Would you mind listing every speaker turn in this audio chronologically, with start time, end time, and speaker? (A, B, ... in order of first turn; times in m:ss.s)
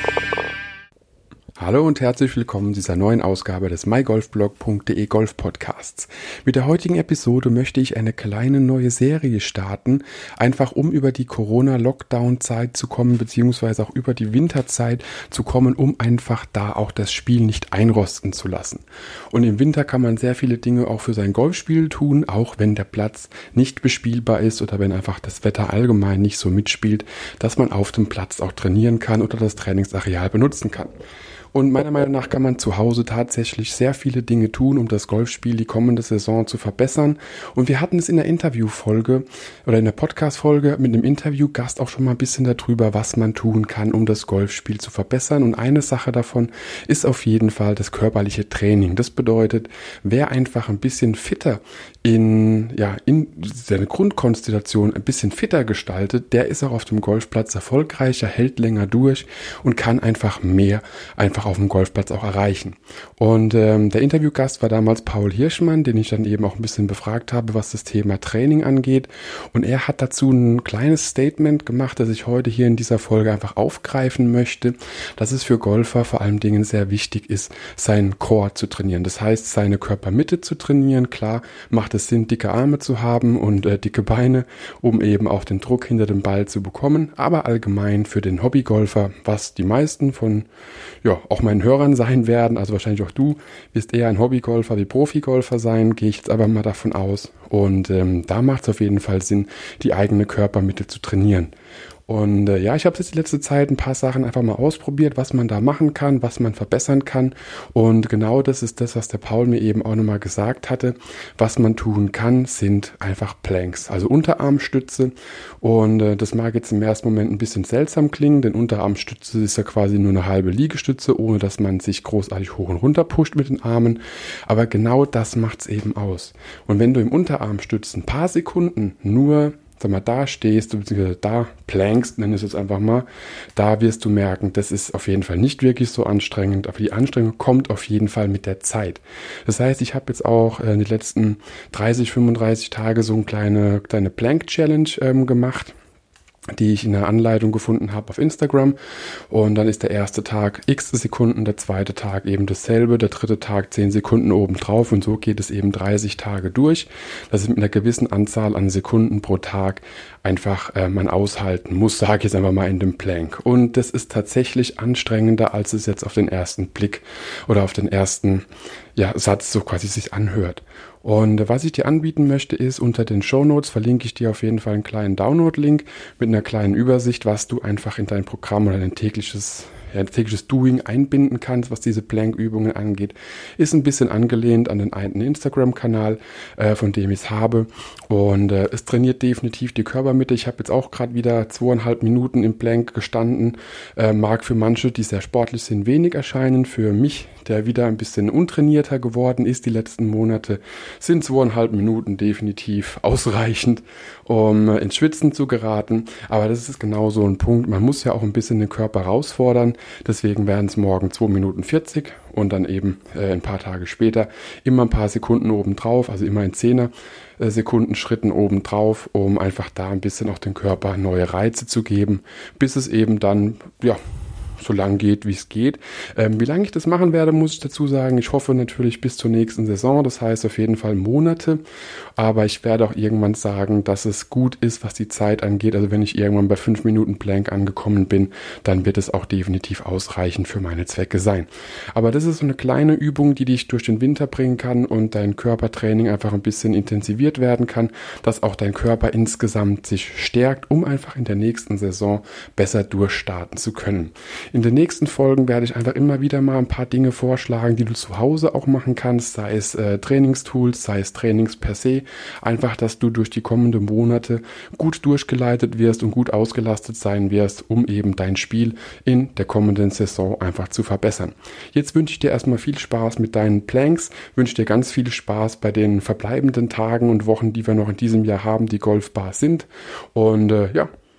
0:01.6-0:30.9 A
0:31.5-1:30.5 A
1:31.0-1:41.5 A
1:42.1-2:25.8 A
2:26.5-2:28.8 A
2:29.3-2:48.4 A
2:49.0-3:44.0 A
3:44.6-3:51.6 A
3:52.2-4:40.9 A